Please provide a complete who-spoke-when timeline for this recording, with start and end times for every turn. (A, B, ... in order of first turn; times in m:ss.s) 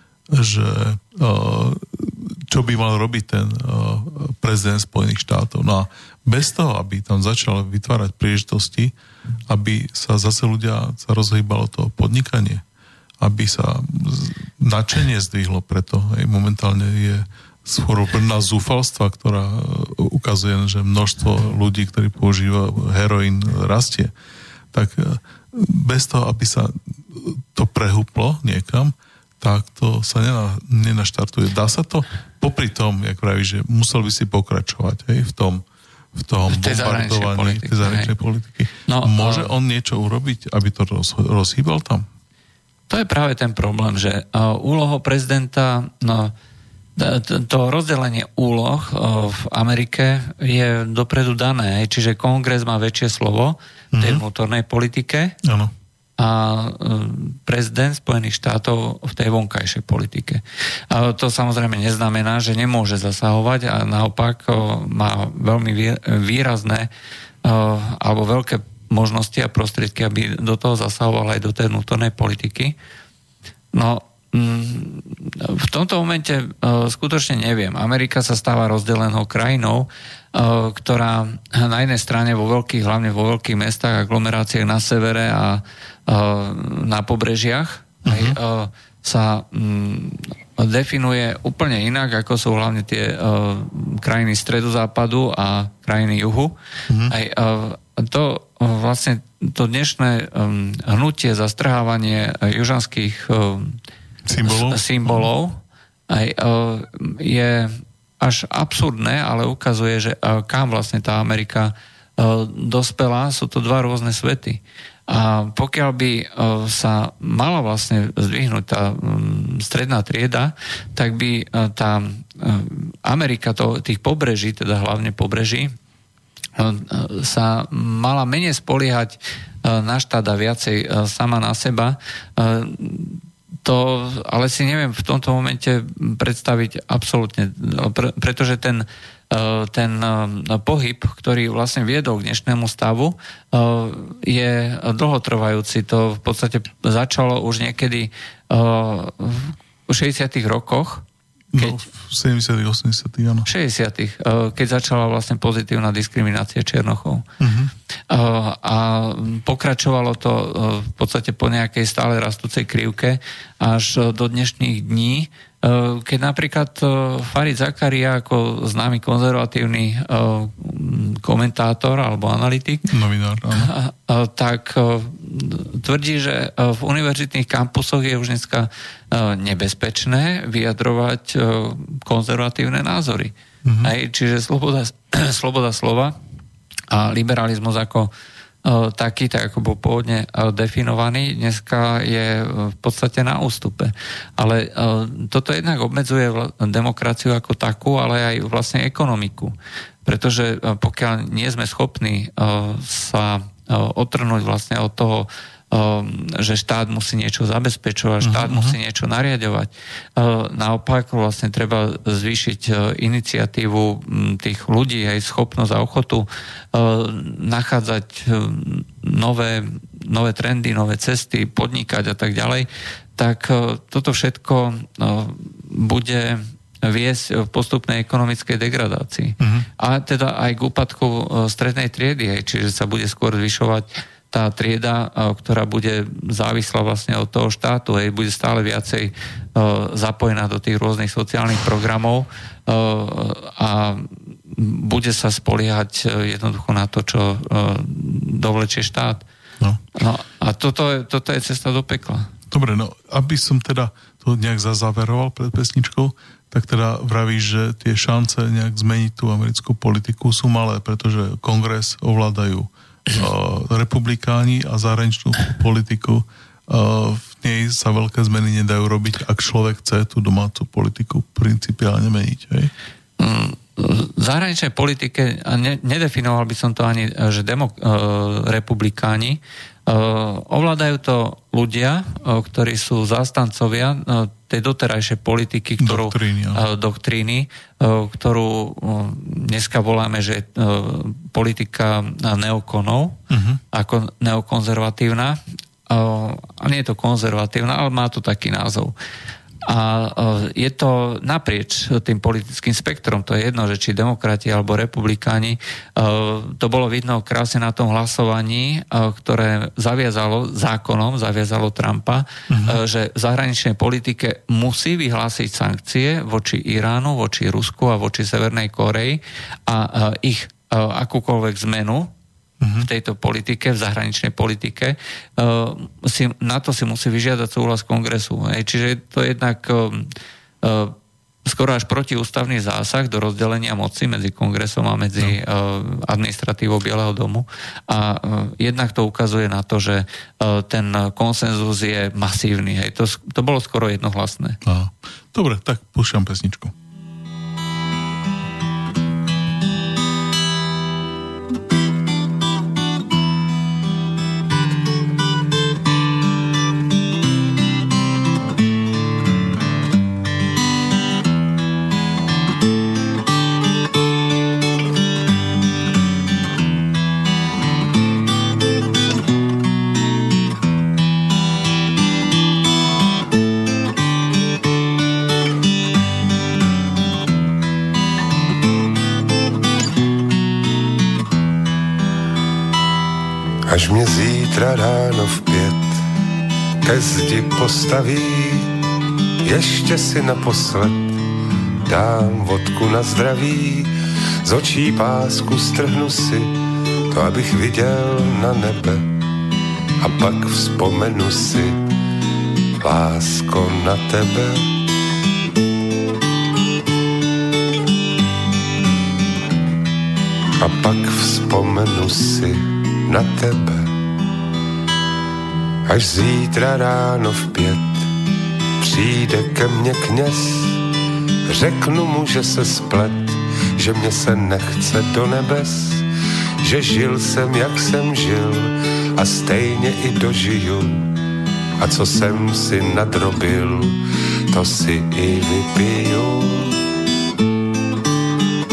0:00.3-0:08.9 A
0:09.5-0:12.6 A
0:13.2-0:24.1 A
0:24.7-0:35.6 A
0:36.1-0:42.1 A
0:36.5-0:38.1 B
0:38.9-0:39.5 B
0:42.9-0:46.3 B
0:47.0-0:55.4 B
0:53.9-0:54.2 A
0:55.4-0:55.7 A
0:56.2-1:06.9 B
1:07.4-1:12.8 B
1:13.7-1:36.5 B
1:28.0-1:28.4 A
1:36.9-1:37.1 A
1:37.1-1:43.8 B
1:44.2-1:45.2 A
1:44.4-1:45.6 B
1:46.1-2:05.7 B
2:06.6-2:31.0 B
2:31.5-2:33.5 A
2:33.4-2:37.2 B
2:37.4-2:37.7 A
2:38.1-2:52.9 B
2:52.9-2:53.7 A
2:53.5-3:06.1 B
3:03.6-3:03.9 A
3:06.9-3:08.1 B
3:08.6-3:19.5 B
3:20.0-4:09.2 B
3:28.2-3:28.8 A
3:49.4-3:49.7 A
4:09.9-4:12.3 B
4:12.5-4:32.7 A
4:33.2-4:53.2 B
4:45.8-4:46.6 A
4:53.3-4:53.6 A
4:53.7-4:58.9 B
4:59.6-5:22.1 B
5:12.5-5:12.8 A
5:22.6-5:22.9 A
5:22.8-5:30.1 B
5:30.6-5:44.6 B
5:44.6-5:46.7 A
6:23.7-6:26.0 C
6:26.8-6:28.7 C
6:29.4-6:31.2 C
6:31.8-6:33.9 C
6:34.4-6:36.5 C
6:37.1-6:39.1 C
6:40.0-6:41.8 C
6:42.8-6:44.6 C
6:50.6-6:53.9 C
6:55.8-6:58.1 C
6:58.8-7:00.8 C
7:01.4-7:06.0 C
7:06.6-7:11.0 C
7:11.8-7:14.0 C
7:14.5-7:16.8 C